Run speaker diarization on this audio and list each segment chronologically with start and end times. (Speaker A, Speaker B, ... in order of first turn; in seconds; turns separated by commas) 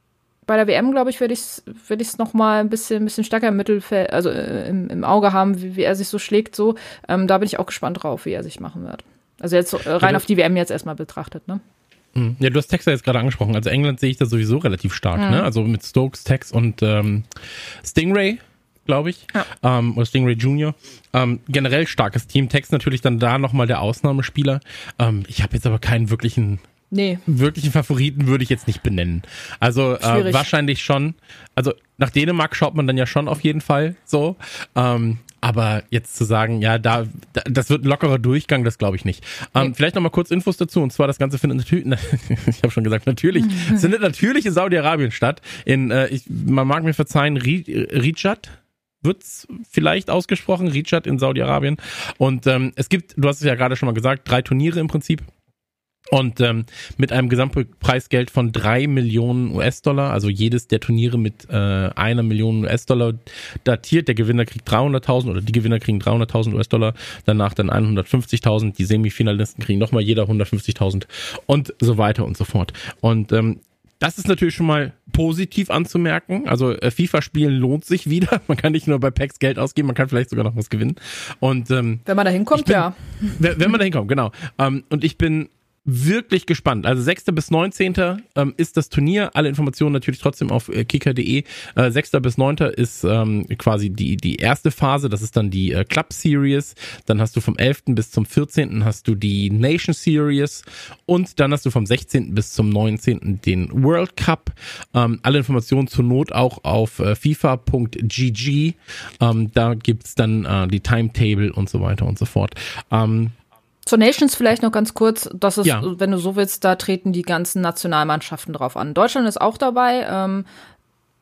Speaker A: 0.5-11.6, Speaker B: 12.2-17.3, Speaker A: 15.2-15.5, Speaker B: 17.8-26.6, Speaker A: 26.9-27.2, Speaker B: 27.3-55.3, Speaker A: 30.0-30.5, Speaker A: 43.4-43.9, Speaker B: 56.1-113.3, Speaker A: 82.1-83.4, Speaker A: 113.9-120.5